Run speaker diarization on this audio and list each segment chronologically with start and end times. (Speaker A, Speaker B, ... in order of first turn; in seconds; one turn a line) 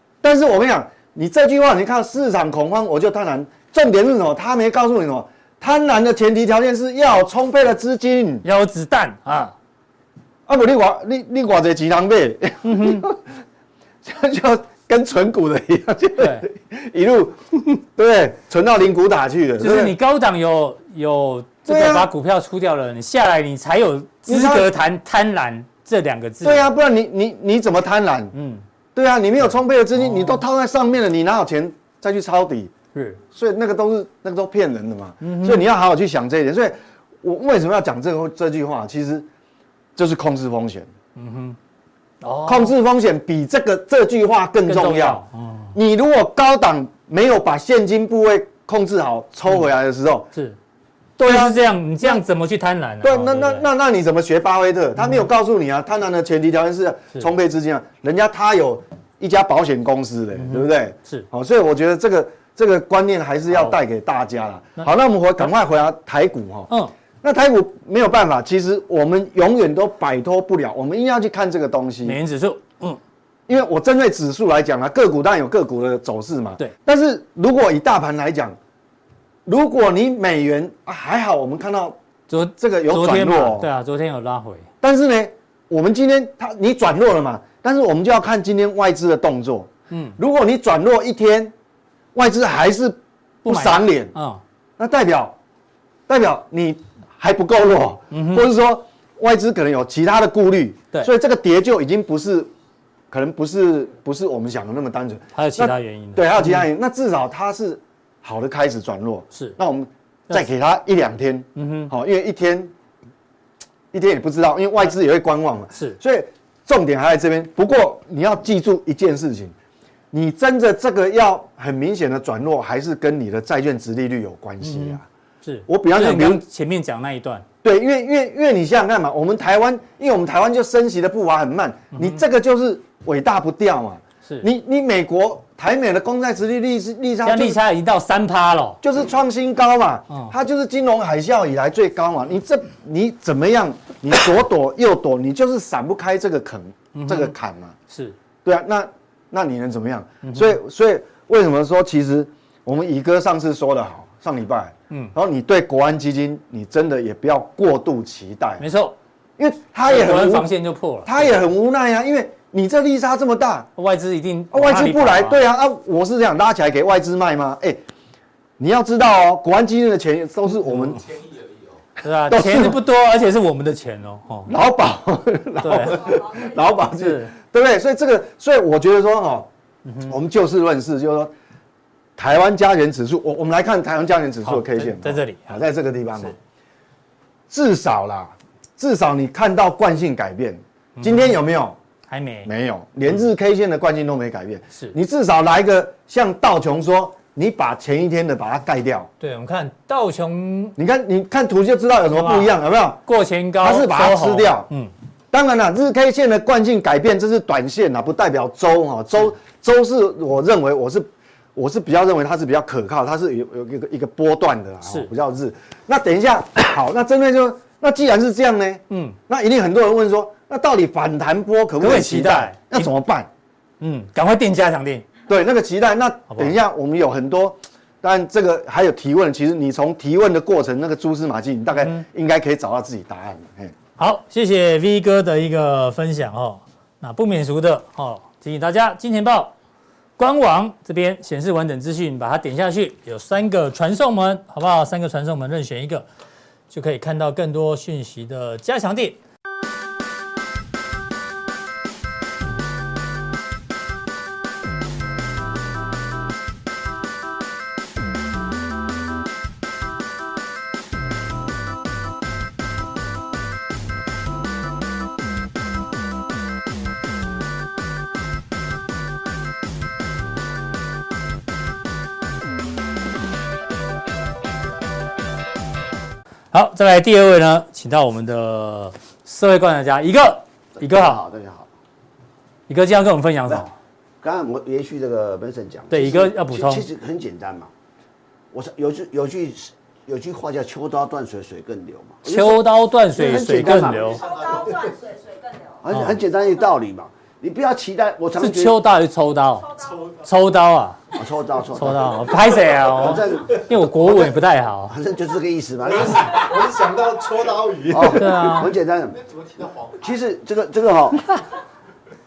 Speaker A: 0.2-8.4
Speaker B: 8.4-9.5
Speaker A: 10.5-13.2
Speaker B: 12.6-13.1
Speaker A: 14.0-20.0
Speaker B: 16.2-16.5
Speaker B: 19.6-26.8
Speaker A: 21.7-22.1
Speaker A: 24.3-24.7
Speaker A: 26.4-28.3
Speaker B: 28.3-28.6
Speaker A: 29.0-32.7
Speaker B: 29.9-30.4
Speaker B: 33.0-33.2
Speaker A: 33.3-39.3
Speaker B: 35.2-35.6
Speaker A: 40.0-40.9
Speaker B: 41.2-41.6
Speaker B: 42.2-42.7
Speaker A: 42.5-45.2
Speaker B: 44.7-45.8
Speaker A: 45.7-50.3
Speaker B: 51.2-53.7
Speaker A: 51.2-52.2
Speaker A: 53.0-66.7
Speaker B: 55.0-55.2
Speaker B: 60.4-61.3
Speaker A: 67.2-72.2
Speaker B: 72.0-73.0
Speaker A: 73.5-78.6
Speaker A: 79.5-82.0
Speaker B: 82.3-84.7
Speaker A: 82.6-83.7
Speaker A: 84.8-91.5
Speaker B: 89.9-90.2
Speaker A: 92.2-94.1
Speaker B: 93.5-94.4
Speaker A: 94.8-95.4
Speaker A: 96.1-102.5
Speaker B: 98.1-98.5
Speaker A: 103.1-112.7
Speaker B: 105.3-106.7
Speaker B: 111.6-111.9
Speaker A: 113.9-119.5
Speaker B: 115.7-116.0
Speaker A: 120.1-125.0
Speaker B: 124.6-127.5
Speaker A: 125.7-126.4
Speaker A: 127.6-137.6
Speaker B: 131.9-132.2
Speaker B: 137.2-138.8
Speaker A: 138.8-147.7
Speaker B: 146.9-147.3
Speaker B: 147.9-148.2
Speaker A: 148.4-158.6
Speaker B: 150.2-150.6
Speaker B: 158.6-159.0
Speaker A: 159.4-160.5
Speaker B: 159.9-161.4
Speaker A: 161.1-163.7
Speaker B: 163.8-165.4
Speaker A: 164.5-167.8
Speaker A: 168.6-171.1
Speaker B: 172.0-174.5
Speaker A: 172.3-172.8
Speaker A: 174.5-179.5
Speaker B: 175.6-176.2
Speaker B: 176.8-177.3
Speaker B: 179.8-180.2
Speaker A: 180.1-181.3
Speaker A: 182.2-186.3
Speaker B: 184.4-185.6
Speaker A: 187.5-191.8
Speaker B: 191.0-191.4
Speaker B: 192.1-192.5
Speaker A: 192.4-199.1
Speaker B: 199.2-200.8
Speaker A: 200.8-203.0
Speaker B: 202.1-202.6
Speaker B: 203.1-204.9
Speaker A: 203.6-204.7
Speaker A: 205.3-223.3
Speaker B: 214.8-215.1
Speaker B: 218.9-219.2
Speaker B: 221.8-222.9
Speaker B: 223.8-225.1
Speaker A: 225.3-233.7
Speaker B: 226.3-226.6
Speaker B: 234.0-239.5
Speaker B: 240.2-246.1
Speaker B: 246.7-249.2
Speaker B: 276.5-281.2
Speaker C: 280.8-281.7
Speaker B: 282.7-283.7
Speaker C: 284.2-287.7
Speaker B: 285.9-286.9
Speaker C: 288.5-294.2
Speaker B: 292.2-294.2
Speaker D: 294.0-295.9
Speaker C: 295.8-298.8
Speaker B: 295.9-296.2
Speaker B: 298.4-301.0
Speaker D: 299.6-300.1
Speaker C: 301.1-302.3
Speaker B: 301.8-305.0
Speaker C: 302.9-304.3
Speaker C: 304.9-306.5
Speaker E: 306.0-308.1
Speaker A: 306.6-308.1
Speaker C: 307.9-309.2
Speaker B: 308.1-308.7
Speaker E: 309.3-310.1
Speaker C: 310.0-311.3